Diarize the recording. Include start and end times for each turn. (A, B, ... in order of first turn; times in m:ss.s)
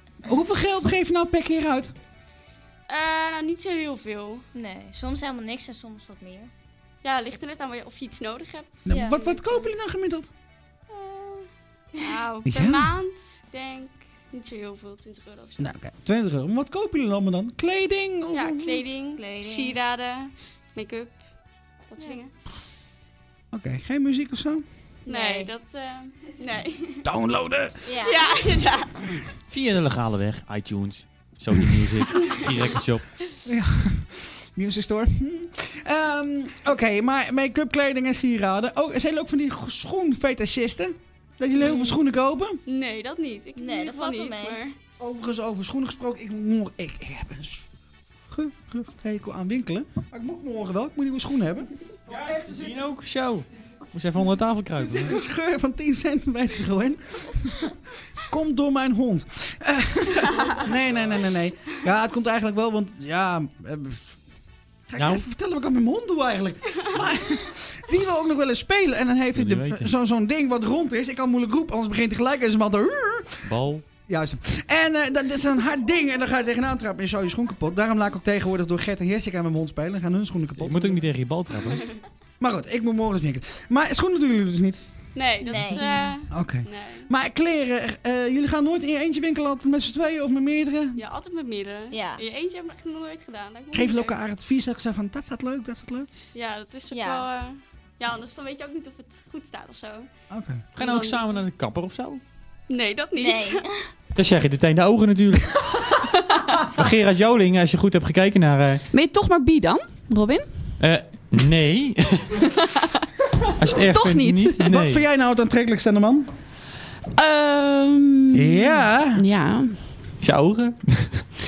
0:00.2-0:01.9 A
0:02.9-0:04.4 B
0:04.5-0:06.5 C
0:07.0-0:09.1 B
0:08.9-0:10.3 A
0:08.9-0:09.5 C
0:10.9-0:15.7 B
0:12.4-0:12.9 A
0:15.6-0:18.8 A
0:18.3-0:21.2 B
0:19.2-0:19.8 C
0:21.9-0:22.3 B
0:23.5-0:24.6 A
0:25.1-0:27.0 B
0:25.1-0:25.5 C
0:27.0-0:27.8 A
0:27.9-0:28.3 C
0:28.0-0:28.9 B
0:29.5-0:33.1 D
0:33.5-0:42.6 A
0:41.7-0:42.0 B
0:42.7-0:44.8 B
0:43.6-0:44.6 C
0:45.0-0:47.6 A
0:48.3-0:52.7 A
0:52.1-0:55.2 D
0:54.8-0:57.7 A
0:58.3-1:04.2 A
1:04.9-1:13.4 A
1:05.0-1:05.2 D
1:09.4-1:09.9 D
1:13.4-1:13.8 D
1:14.1-1:21.0 A
1:20.6-1:21.9 D
1:22.4-1:24.8 A
1:25.2-1:27.1 B
1:25.4-1:26.0 C
1:26.3-1:31.0 A
1:31.0-1:34.2 B
1:31.9-1:32.2 C
1:33.7-1:36.1 A
1:36.3-1:40.1 B
1:36.9-1:37.3 C
1:40.3-1:40.6 A
1:40.8-1:42.2 D
1:40.8-1:41.4 B
1:42.7-1:43.6 B
1:43.2-1:43.9 C
1:44.2-1:45.6 D
1:46.8-1:48.8 D
1:48.9-1:50.5 E
1:50.8-1:52.4 D
1:53.6-1:55.0 D
1:53.8-1:54.7 E
1:54.6-1:56.3 A
1:57.2-1:59.8 E
1:58.3-1:59.2 A
2:00.2-2:01.2 D